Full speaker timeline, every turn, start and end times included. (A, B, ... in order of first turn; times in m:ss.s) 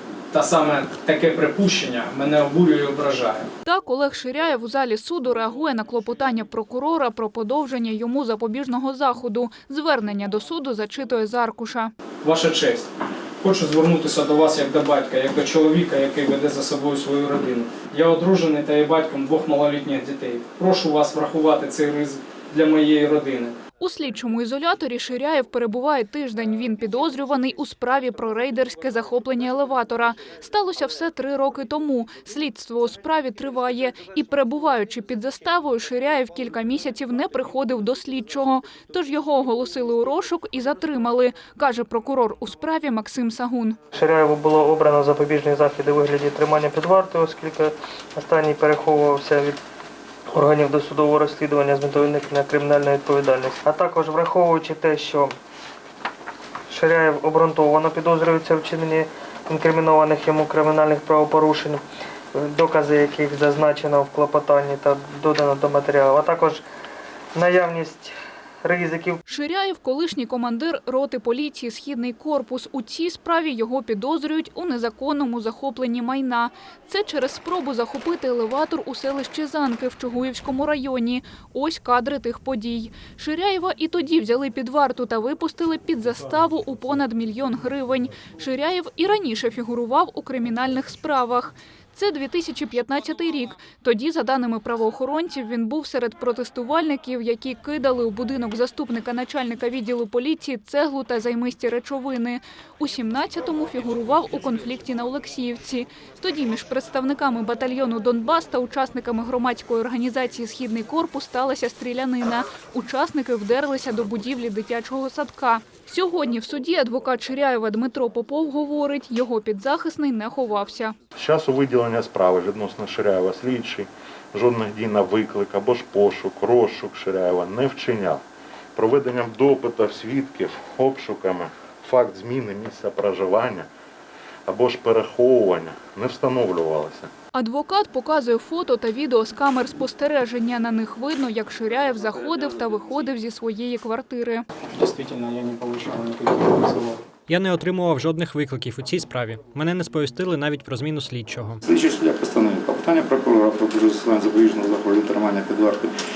0:00.3-0:03.5 A
0:03.7-0:11.9 B
0:12.2-0:12.9 A
0:13.4-0:23.6 A
0:23.8-0:43.8 B
0:43.9-0:49.6 C
0:50.3-0:55.3 C
0:56.7-1:01.8 C
1:02.3-1:06.6 C
1:07.3-1:08.1 C
1:08.6-1:09.2 C
1:09.3-2:00.9 B
2:01.2-2:08.2 D
2:08.8-2:13.7 D
2:14.5-2:17.1 D
2:17.4-2:24.4 B
2:22.3-2:22.8 E
2:24.7-2:27.0 A
2:27.3-2:31.6 F
2:31.6-2:35.9 E